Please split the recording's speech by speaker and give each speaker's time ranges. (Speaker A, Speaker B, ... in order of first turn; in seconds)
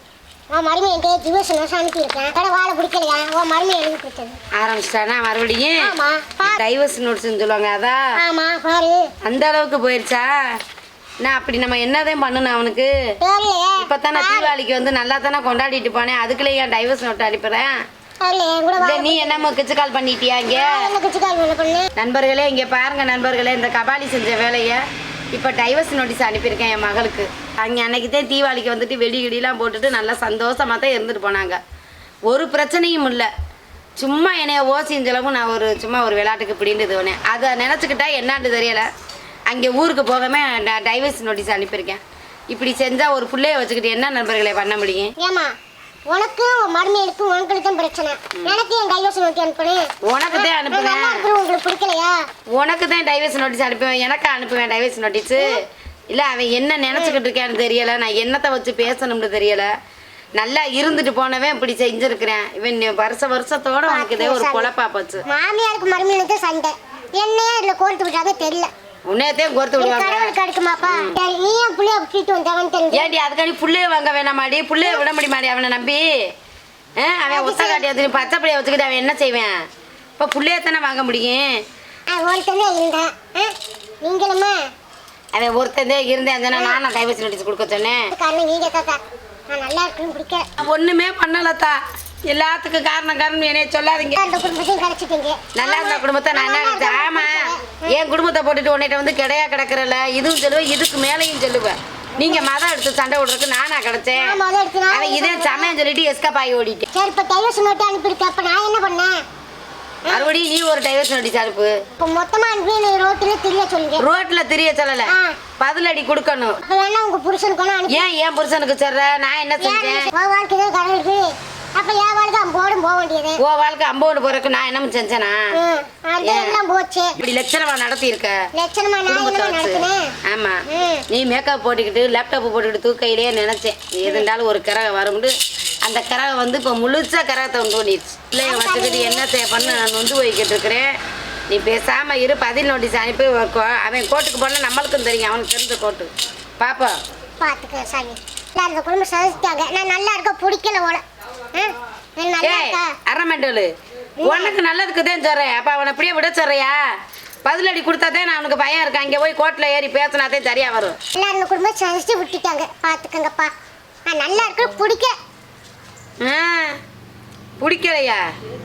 Speaker A: 0.5-4.4, 5.8-6.6, 8.2-9.1, 13.2-14.5, 18.2-19.5, 20.5-21.9, 45.2-45.5, 46.1-52.2, 56.9-57.2, 63.9-64.7, 65.3-68.7, 69.8-73.1, 77.3-77.9, 82.1-84.7, 86.5-86.8, 88.1-90.5, 94.2-98.0, 104.2-105.7, 106.9-109.2, 112.0-114.0, 115.1-115.4, 116.6-118.1, 119.6-123.4, 125.5-127.2, 128.5-130.1, 130.7-131.1, 138.4-139.8, 147.4-153.0, 154.2-154.5, 161.1-163.5, 164.1-165.2
Speaker B: 4.6-8.1, 9.2-10.4, 11.2-12.9, 13.8-17.8, 18.8-20.9, 22.0-24.8, 25.3-31.6, 32.3-33.3, 34.0-38.9, 39.5-42.0, 42.5-45.1, 50.0-51.3, 52.5-55.6, 56.1-59.7, 60.4-65.2, 69.1-70.3, 70.9-71.1, 72.9-76.3, 77.0-79.6, 80.2-81.6, 85.3-88.1, 90.6-94.2, 95.6-104.4, 104.9-106.9, 110.1-111.8, 114.0-116.6, 117.9-120.1, 123.4-125.5, 126.2-126.6, 127.2-128.5, 129.1-140.9, 141.5-147.0, 152.4-153.7, 154.2-156.8, 157.4-161.0, 166.2-166.8, 167.6-168.2